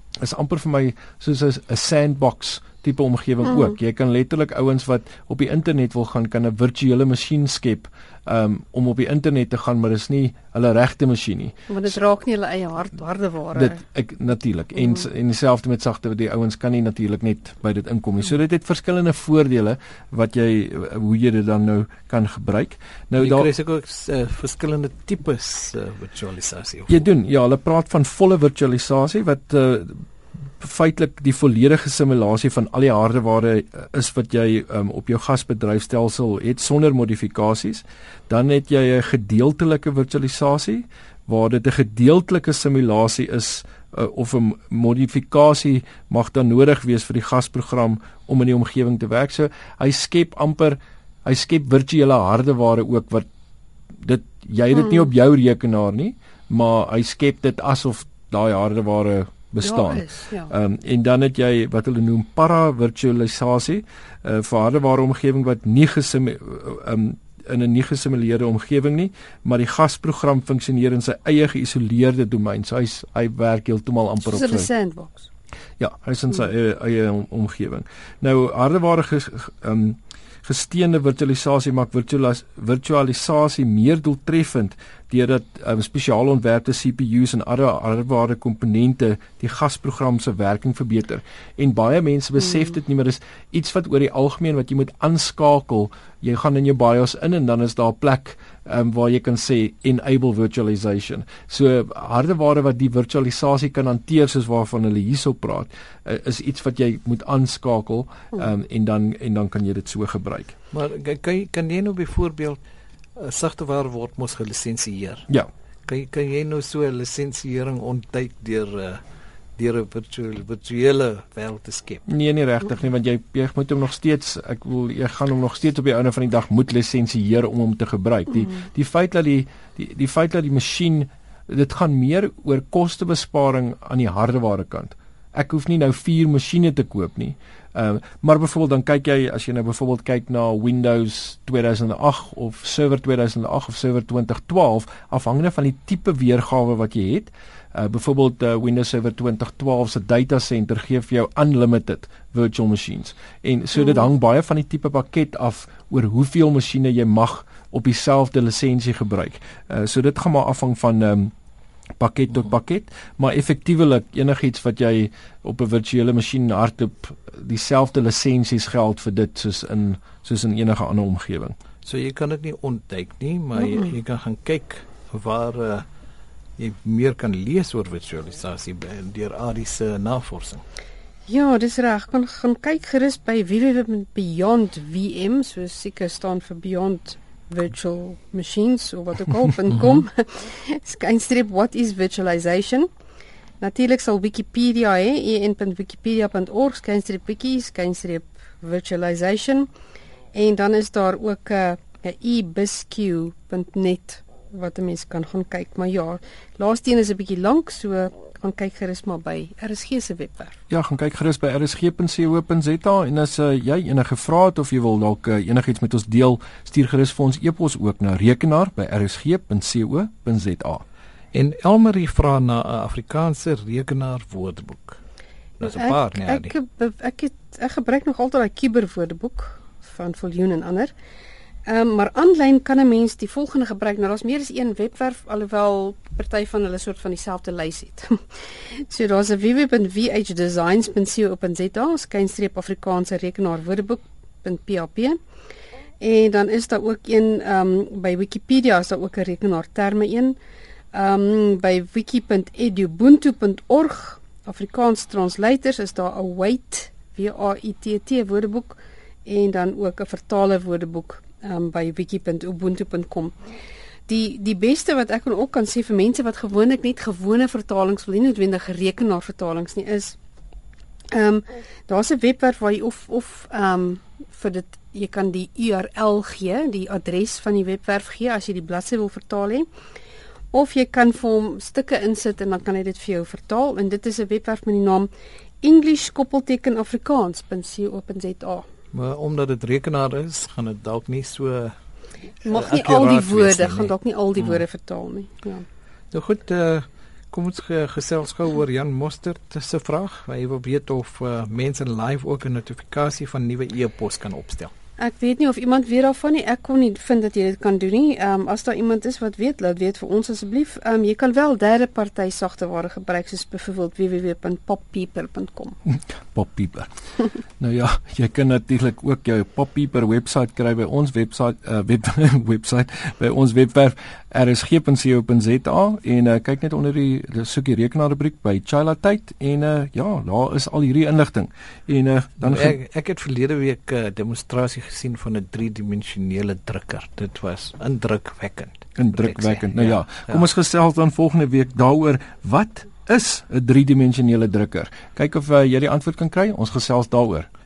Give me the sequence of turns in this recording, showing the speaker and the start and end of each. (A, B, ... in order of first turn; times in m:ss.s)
0:00.2-0:11.7 A
0:11.7-0:13.8 B
0:13.5-0:23.5 A
0:23.2-0:27.0 C
0:26.9-0:30.0 A
0:30.6-0:53.2 A
0:54.0-1:14.7 A
0:59.6-1:00.5 B
1:14.2-1:15.3 B
1:15.8-1:50.5 A
1:50.7-1:52.6 C
1:53.2-1:55.3 C
1:55.8-1:59.0 C
1:59.6-2:02.0 C
2:02.1-2:41.3 A
2:33.8-2:34.0 B
2:42.0-2:51.5 A
2:51.8-2:55.8 C
2:53.6-2:53.9 B
2:56.6-3:00.6 C
3:01.3-3:12.9 B
3:13.6-3:19.7 B
3:20.3-3:30.6 B
3:30.7-3:40.8 A
3:41.3-3:45.0 C
3:45.6-3:46.5 C
3:45.6-3:50.9 B
3:51.6-4:05.2 B
4:06.0-4:10.4 B
4:10.9-4:23.4 B
4:24.1-4:30.2 B
4:31.1-4:39.7 B
4:40.5-4:45.1 B
4:45.6-4:48.7 B
4:48.9-4:51.8 C
4:52.4-4:55.6 B
4:52.4-4:54.6 C
4:56.1-5:04.7 C
5:05.0-5:15.8 B
5:16.0-5:16.9 A
5:17.6-5:32.8 A
5:32.4-5:40.4 C
5:39.0-5:47.5 A